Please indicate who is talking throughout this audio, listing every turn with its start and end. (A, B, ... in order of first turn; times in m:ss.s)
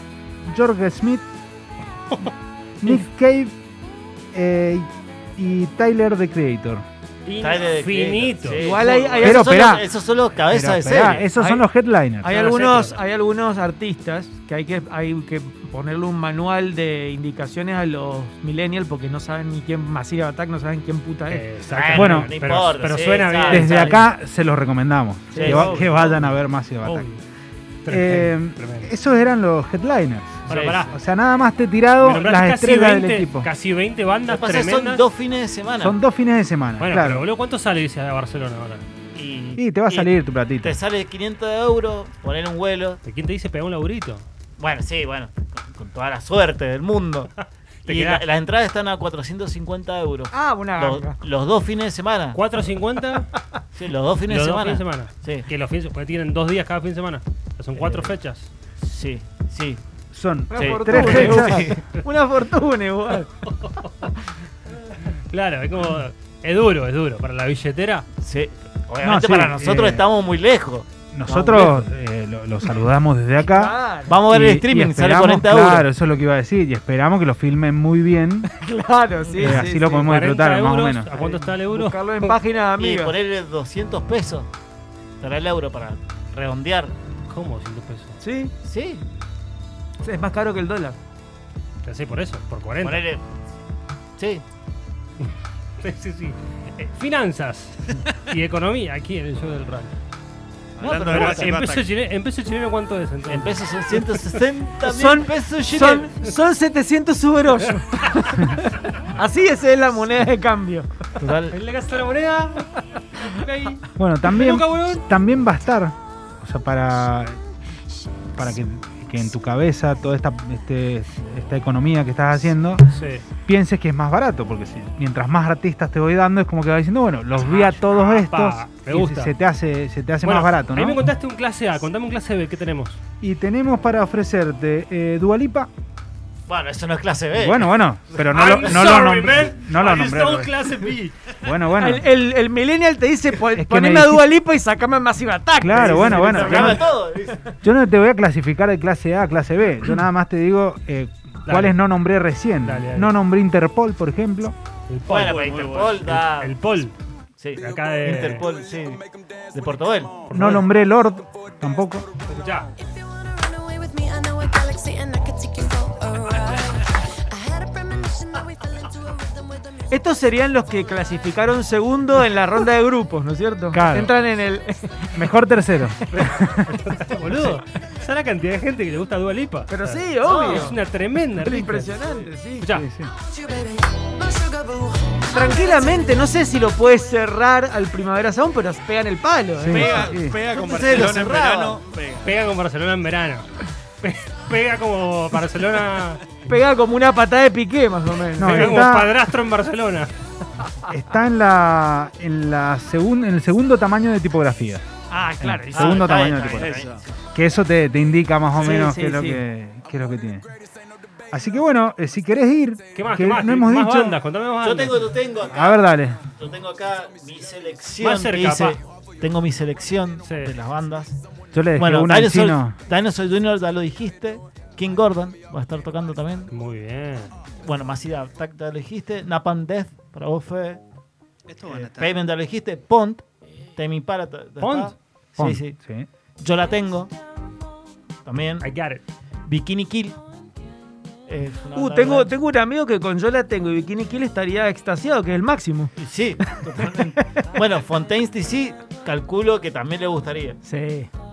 0:00.5-0:01.2 A
0:02.8-0:03.5 A
0:04.3-0:06.8 A
0:07.2-0:08.8 B
0:07.4-0:11.3 C
0:08.6-0:09.5 D
0:09.2-0:09.9 A
0:10.5-0:12.3 A
0:11.4-0:11.6 D
0:12.2-0:21.4 D
0:12.3-0:13.0 B
0:21.3-0:24.1 B
0:21.7-0:24.1 C
0:21.9-0:22.3 A
0:23.4-0:27.1 A
0:25.3-0:25.8 C
0:25.4-0:27.2 B
0:25.4-0:25.9 D
0:27.8-0:28.9 B
0:27.9-0:33.5 A
0:30.5-0:31.0 B
0:30.5-0:30.8 C
0:32.0-0:35.0 B
0:34.3-0:36.0 C
0:35.8-0:37.2 A
0:36.8-0:38.8 B
0:39.1-0:43.0 C
0:39.6-0:40.8 A
0:43.0-0:44.2 B
0:44.6-0:47.3 C
0:47.8-0:48.2 B
0:47.9-0:52.4 C
0:50.3-0:51.2 D
0:52.3-0:53.3 B
0:53.7-0:55.4 C
0:54.2-0:58.5 B
0:57.7-0:58.2 C
0:58.8-0:59.8 C
1:00.1-1:01.7 A
1:00.5-1:03.3 D
1:00.5-1:01.8 C
1:03.6-1:04.1 B
1:05.3-1:08.0 B
1:08.2-1:11.8 C
1:09.0-1:10.0 A
1:11.1-1:13.7 A
1:13.4-1:14.2 D
1:14.1-1:15.9 C
1:14.3-1:18.5 A
1:18.5-1:20.1 D
1:19.3-1:19.6 C
1:19.4-1:21.1 A
1:20.0-1:22.4 B
1:21.1-1:23.1 D
1:22.8-1:24.5 C
1:25.2-1:26.9 C
1:27.3-1:28.1 B
1:28.2-1:28.5 D
1:28.6-1:29.0 C
1:30.0-1:31.0 D
1:31.8-1:33.0 B
1:32.8-1:33.2 C
1:34.2-1:34.4 C
1:35.8-1:39.9 B
1:40.8-1:41.9 E
1:40.8-1:41.6 C
1:41.1-1:44.0 B
1:43.3-1:46.1 C
1:44.8-1:50.9 D
1:51.2-1:51.6 C
1:51.5-1:52.7 B
1:53.2-1:55.0 B
1:54.0-1:57.4 A
1:58.4-2:02.8 A
2:02.9-2:03.2 B
2:03.4-2:11.0 A
2:07.5-2:09.3 B
2:10.2-2:13.0 B
2:13.2-2:15.7 A
2:16.5-2:17.8 C
2:17.3-2:20.5 A
2:18.2-2:21.2 B
2:21.4-2:22.0 A
2:21.8-2:27.0 D
2:23.5-2:24.3 A
2:25.6-2:26.8 A
2:25.8-2:27.4 C
2:27.6-2:34.5 A
2:31.4-2:31.8 B
2:32.6-2:33.1 B
2:34.9-2:35.4 B
2:35.1-2:36.5 C
2:35.1-2:36.2 E
2:36.0-2:36.9 B
2:37.4-2:40.2 C
2:37.6-2:38.4 B
2:40.3-2:40.6 B
2:40.3-2:42.0 A
2:42.3-2:42.7 B
2:43.6-2:46.2 F
2:47.4-2:48.1 F
2:49.9-2:55.3 D
2:53.7-2:54.2 A
2:55.1-2:56.8 A
2:56.4-3:02.0 B
2:59.7-3:00.8 D
3:00.2-3:00.7 C
3:01.4-3:02.6 D
3:02.6-3:02.8 B
3:02.7-3:03.1 A
3:05.3-3:09.9 D
3:09.6-3:10.4 A
3:09.7-3:12.3 E
3:09.8-3:11.8 C
3:12.2-3:13.4 B
3:14.0-3:16.2 B
3:16.4-3:18.8 D
3:18.4-3:19.1 A
3:18.4-3:20.1 B
3:20.9-3:24.8 A
3:25.1-3:26.2 D
3:25.4-3:26.8 A
3:25.7-3:27.1 C
3:26.5-3:27.0 E
3:27.3-3:30.5 A
3:28.5-3:29.4 D
3:31.3-3:34.2 A
3:32.9-3:35.0 B
3:34.6-3:41.2 C
3:35.5-3:36.2 A
3:38.0-3:38.8 B
3:40.2-3:40.5 B
3:41.5-3:42.8 A
3:41.8-3:46.5 C
3:46.5-3:47.3 B
3:47.6-3:50.8 C
3:51.5-3:52.3 E
3:51.6-3:53.2 C
3:53.8-3:55.8 C
3:54.6-3:54.9 B
3:55.4-3:56.1 A
3:56.4-3:57.1 C
3:58.2-3:58.7 C
3:58.6-3:59.0 B
3:59.5-4:00.2 C
4:01.3-4:02.3 C
4:01.7-4:05.9 D
4:06.0-4:10.6 C
4:06.7-4:07.4 D
4:10.6-4:11.1 D